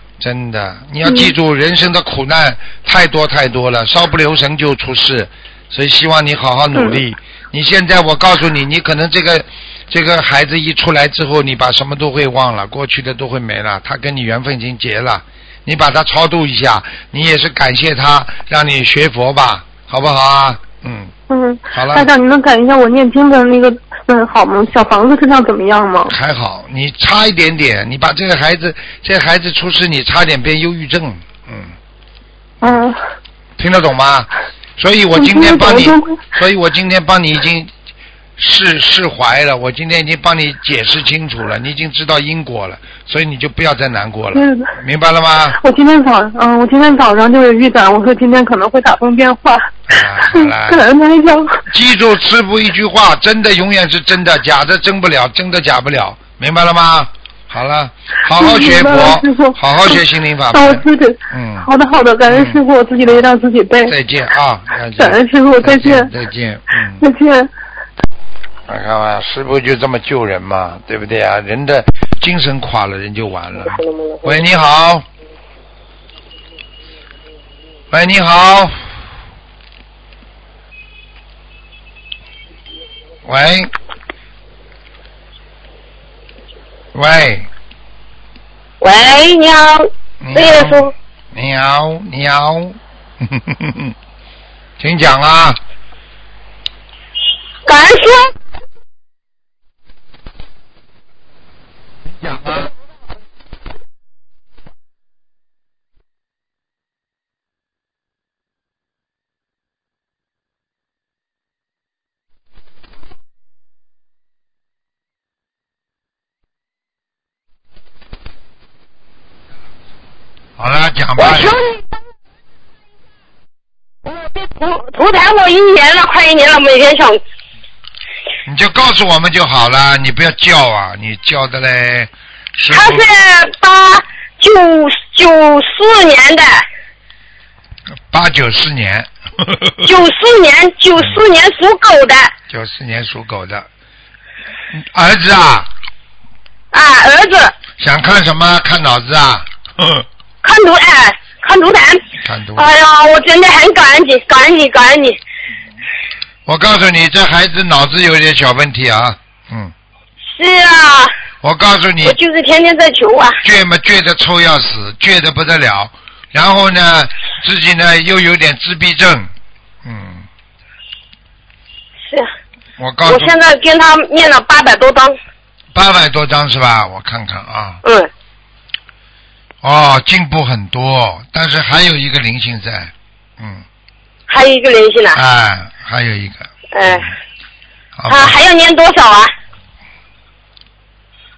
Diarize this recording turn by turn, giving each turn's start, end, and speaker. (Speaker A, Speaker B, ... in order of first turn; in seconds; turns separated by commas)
Speaker A: 0.2-21.1, Speaker B: 1.1-1.3, Speaker B: 21.3-26.1, Speaker A: 21.7-22.1, Speaker A: 26.1-31.7, Speaker B: 32.6-33.0, Speaker A: 33.6-37.7, Speaker B: 35.2-36.1, Speaker A: 38.4-45.6, Speaker B: 44.3-44.7, Speaker B: 45.6-49.7, Speaker A: 49.9-50.8, Speaker B: 50.3-51.6, Speaker A: 51.7-61.7, Speaker B: 58.3-60.0, Speaker B: 60.5-63.9, Speaker A: 62.3-63.3, Speaker A: 63.9-67.0, Speaker B: 65.0-66.1, Speaker B: 67.0-67.5, Speaker A: 68.7-75.0, Speaker C: 73.8-74.2, Speaker A: 77.9-78.8, Speaker A: 83.2-83.7, Speaker A: 86.9-87.5, Speaker C: 88.8-90.9, Speaker A: 90.2-93.9, Speaker A: 94.8-95.6, Speaker C: 97.7-98.3, Speaker A: 120.6-121.6, Speaker C: 121.2-121.8, Speaker C: 124.1-127.2, Speaker A: 128.4-133.0, Speaker C: 132.7-136.6, Speaker A: 138.1-139.9, Speaker C: 139.8-142.3, Speaker A: 142.5-143.7, Speaker A: 144.7-145.7, Speaker C: 146.7-147.5, Speaker A: 147.8-150.0, Speaker C: 150.4-152.0, Speaker A: 152.2-152.7, Speaker C: 152.6-155.2, Speaker A: 156.4-159.7, Speaker C: 160.3-161.1, Speaker A: 161.4-162.2, Speaker C: 162.0-163.4, Speaker A: 163.4-169.3, Speaker A: 169.8-170.2, Speaker A: 172.8-173.3, Speaker C: 173.1-175.2, Speaker A: 175.7-177.8, Speaker C: 177.8-178.1, Speaker A: 179.6-183.6, Speaker C: 184.3-185.2, Speaker A: 185.1-187.1, Speaker C: 186.7-187.1, Speaker A: 188.0-188.4, Speaker C: 188.1-189.3